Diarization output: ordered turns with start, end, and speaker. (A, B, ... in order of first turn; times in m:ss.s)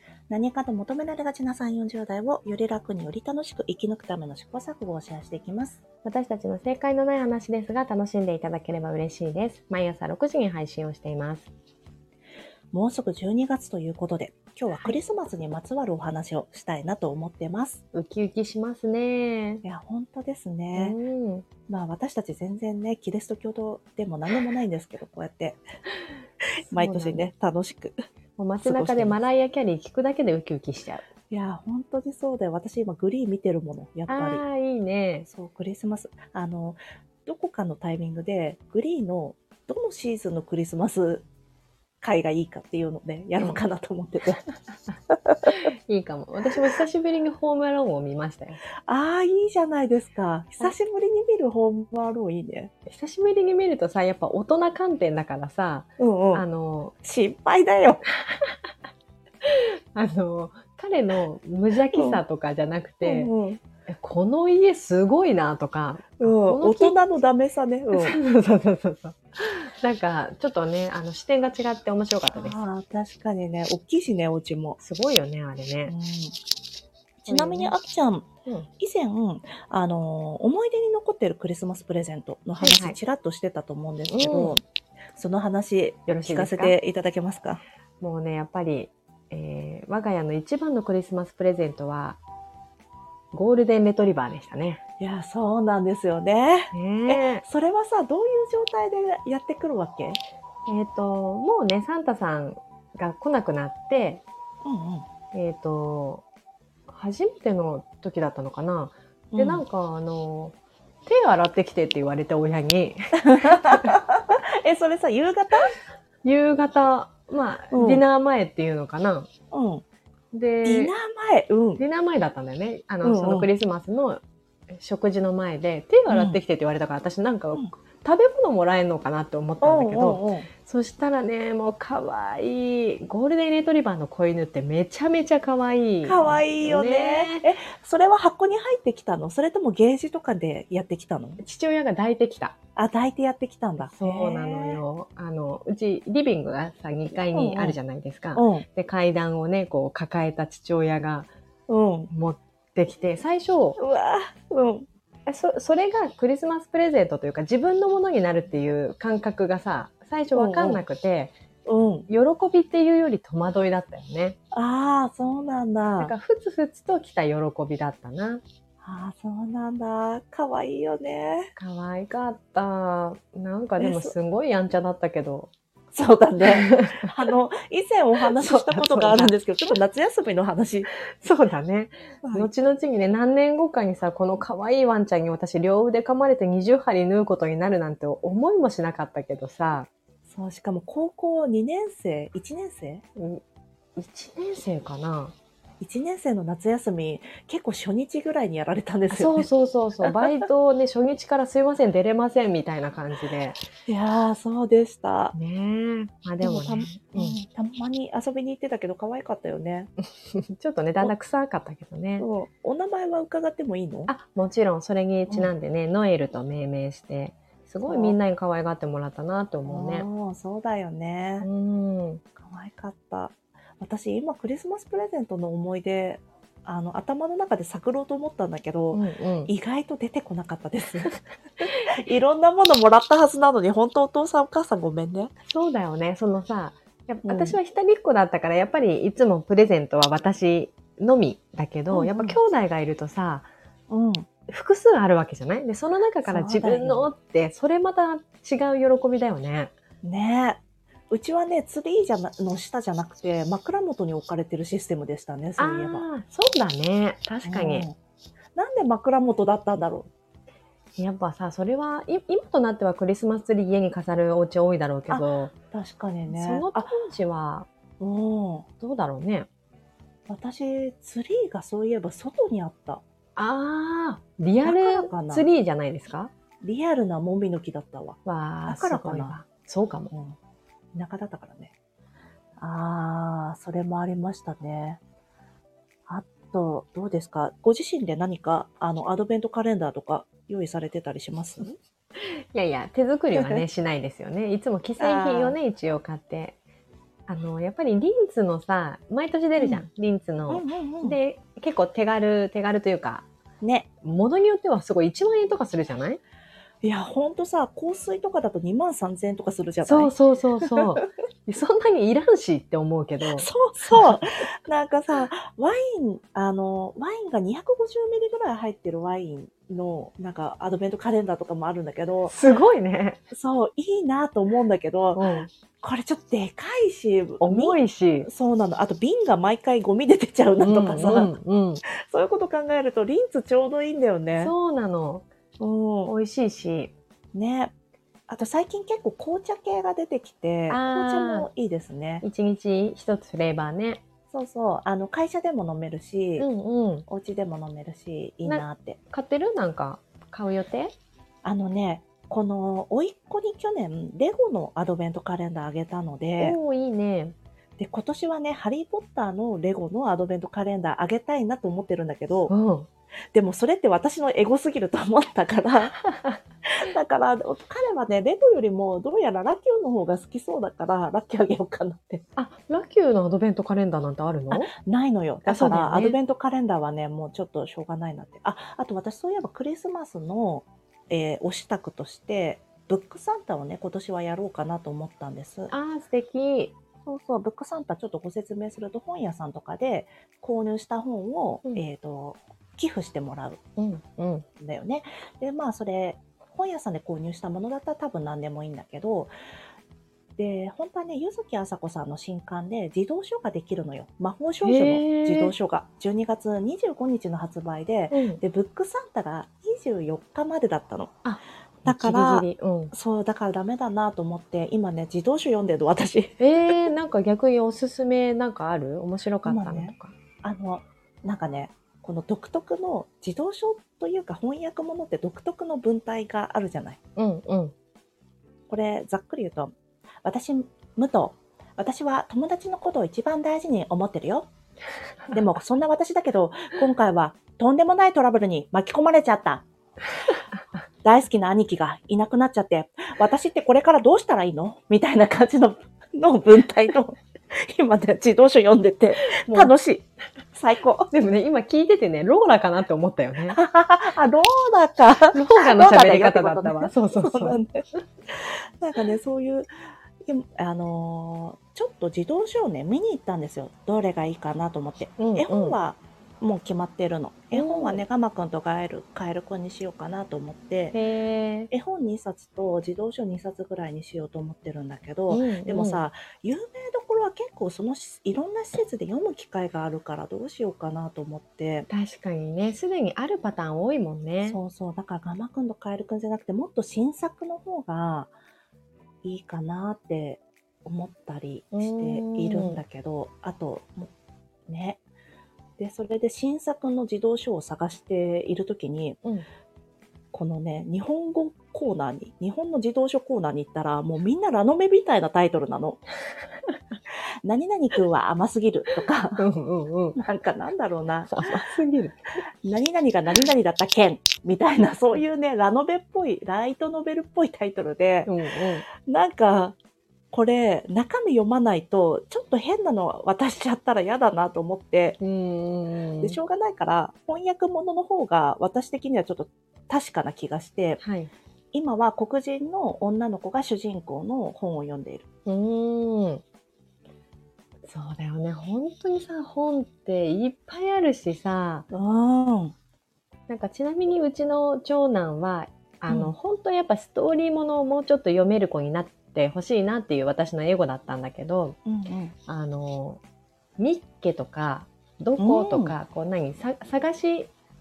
0:00.3-0:05.8 A
0:06.0-0:11.5 B
0:12.7-0:17.8 A
0:17.9-0:19.6 B
0:19.6-0:21.0 A
0:20.8-0:21.4 B
0:21.7-0:25.6 A
0:26.6-0:27.3 B
0:26.7-0:28.0 A
0:28.4-0:31.0 B
0:28.6-0:29.2 A
0:31.3-0:34.4 A
0:34.1-0:35.3 B
0:35.3-0:41.2 A
0:42.0-0:44.4 A
0:45.4-0:48.6 B
0:48.8-0:52.7 A
0:52.8-0:56.9 B
0:56.0-0:56.4 A
0:57.0-0:58.0 A
0:58.3-0:58.5 B
0:59.4-1:03.3 B
1:01.9-1:02.2 A
1:03.0-1:03.6 A
1:03.9-1:07.2 B
1:06.2-1:08.2 A
1:08.0-1:12.6 B
1:12.3-1:14.8 A
1:14.8-1:15.9 B
1:15.9-1:16.4 A
1:17.2-1:17.7 B
1:17.2-1:18.3 A
1:18.8-1:24.6 A
1:22.6-1:23.0 B
1:24.1-1:24.6 B
1:25.1-1:27.6 A
1:26.1-1:26.8 B
1:28.0-1:32.2 B
1:33.3-1:34.8 B
1:35.0-1:40.2 A
1:36.7-1:37.4 B
1:40.7-1:44.2 B
1:44.6-1:45.0 A
1:45.3-1:46.2 B
1:46.9-1:53.9 B
1:49.3-1:49.6 A
1:53.3-1:55.7 A
1:56.2-1:59.3 B
1:57.7-1:58.0 A
1:59.5-1:59.8 A
2:00.3-2:00.9 B
2:00.6-2:01.8 A
2:01.8-2:17.5 B
2:03.0-2:03.5 A
2:06.1-2:06.4 A
2:09.6-2:10.5 A
2:16.0-2:21.4 A
2:21.4-2:22.6 B
2:22.8-2:24.8 A
2:23.8-2:31.3 B
2:27.3-2:27.8 A
2:28.3-2:28.6 A
2:31.7-2:32.1 A
2:32.1-2:33.8 B
2:33.8-2:34.8 A
2:35.2-2:41.3 B
2:40.3-2:40.8 A
2:41.6-2:42.1 A
2:42.1-2:44.4 B
2:44.5-2:46.1 A
2:46.0-2:48.4 B
2:48.8-2:51.5 A
2:51.6-2:55.5 B
2:53.8-2:54.1 A
2:55.9-3:00.9 A
2:56.5-2:57.1 B
2:58.3-2:59.3 B
3:01.2-3:09.9 B
3:02.2-3:02.5 A
3:10.3-3:13.0 A
3:13.2-3:13.4 B
3:14.0-3:15.3 B
3:15.8-3:19.5 A
3:19.1-3:23.6 B
3:20.0-3:20.4 A
3:23.9-3:25.3 A
3:25.3-3:27.4 B
3:26.4-3:29.9 A
3:30.2-3:32.3 B
3:32.2-3:34.1 A
3:34.1-3:40.0 B
3:37.8-3:38.2 A
3:39.7-3:41.5 A
3:41.4-3:42.2 B
3:42.4-3:55.3 A
3:48.9-3:49.5 B
3:55.5-4:03.5 B
3:57.2-3:57.6 A
4:01.9-4:02.4 A
4:03.9-4:04.3 A
4:04.5-4:09.7 B
4:06.2-4:07.1 A
4:10.0-4:16.1 A
4:15.6-4:17.9 B
4:17.4-4:18.0 A
4:18.6-4:20.1 A
4:21.0-4:25.5 B
4:25.1-4:26.9 A
4:26.3-4:27.7 B
4:28.0-4:28.6 A
4:28.8-4:29.5 B
4:30.3-4:33.0 A
4:33.4-4:36.3 B
4:34.6-4:35.5 A
4:36.6-4:39.4 A
4:38.2-4:40.1 B
4:40.1-4:40.4 A
4:40.9-4:41.7 A
4:42.6-4:45.0 A
4:46.1-4:51.7 A
4:51.6-4:56.6 B
4:53.3-4:53.6 A
4:55.0-4:55.6 A
4:57.3-5:03.3 B
4:59.6-4:59.9 A
5:00.5-5:01.2 A
5:03.6-5:03.9 A
5:04.0-5:06.2 B
5:06.8-5:10.1 A
5:09.8-5:14.2 B
5:13.2-5:22.3 A
5:22.3-5:23.2 B
5:23.3-5:25.2 A
5:25.1-5:25.5 B
5:25.8-5:31.3 A
5:27.4-5:28.3 B
5:30.6-5:31.8 B
5:31.9-5:34.5 A
5:34.4-5:35.2 B
5:35.6-5:36.1 A
5:36.1-5:36.9 B
5:37.3-5:37.7 A
5:38.3-5:42.2 A
5:40.7-5:41.5 B
5:42.2-5:44.0 B
5:44.3-5:46.5 A
5:46.4-5:47.0 B
5:47.1-5:49.0 A
5:48.4-5:50.9 B
5:51.4-5:56.6 A
5:56.4-5:57.3 B
5:57.8-6:02.5 A
6:02.5-6:02.9 B
6:03.3-6:05.9 A
6:06.1-6:06.4 B
6:06.8-6:12.2 A
6:12.4-6:14.7 B
6:14.5-6:25.7 A
6:15.4-6:16.2 B
6:25.7-6:26.7 B
6:27.0-6:33.6 A
6:33.8-6:34.4 B
6:34.6-6:39.3 A
6:40.4-6:51.1 A
6:44.6-6:45.5 B
6:48.1-6:48.4 B
6:51.2-6:52.9 B
6:51.8-6:56.9 A
6:56.4-7:00.1 B
6:59.4-7:07.0 A
7:07.2-7:07.7 B
7:08.7-7:09.7 A
7:10.2-7:14.5 A
7:15.3-7:19.6 A
7:21.0-7:31.1 A
7:29.2-7:29.7 B
7:31.1-7:33.6 B
7:33.5-7:39.7 A
7:35.3-7:37.6 B
7:40.2-7:51.0 A
7:45.2-7:45.8 B
7:47.5-7:48.0 B
7:50.9-7:51.7 B
7:51.7-8:01.9 A
7:55.3-7:56.0 B
8:01.9-8:04.6 B
8:04.4-8:08.3 A
8:09.2-8:14.1 A
8:11.7-8:12.8 B
8:14.7-8:15.0 A
8:15.8-8:19.2 A
8:20.3-8:26.0 A
8:27.4-8:29.5 A
8:29.4-8:30.2 B
8:30.2-8:31.4 A
8:31.3-8:32.2 B
8:32.6-8:38.3 A
8:38.2-8:38.9 B
8:39.0-8:39.8 A
8:40.3-8:45.2 A
8:45.2-8:46.4 B
8:46.2-8:51.0 A
8:51.0-8:51.3 B
8:51.7-8:55.2 A
8:55.4-8:56.4 B
8:57.9-9:01.8 B
9:01.9-9:02.7 A
9:03.5-9:11.8 B
9:06.1-9:06.4 A
9:11.8-9:12.3 A
9:12.5-9:13.2 B
9:13.8-9:17.5 B
9:15.4-9:16.0 A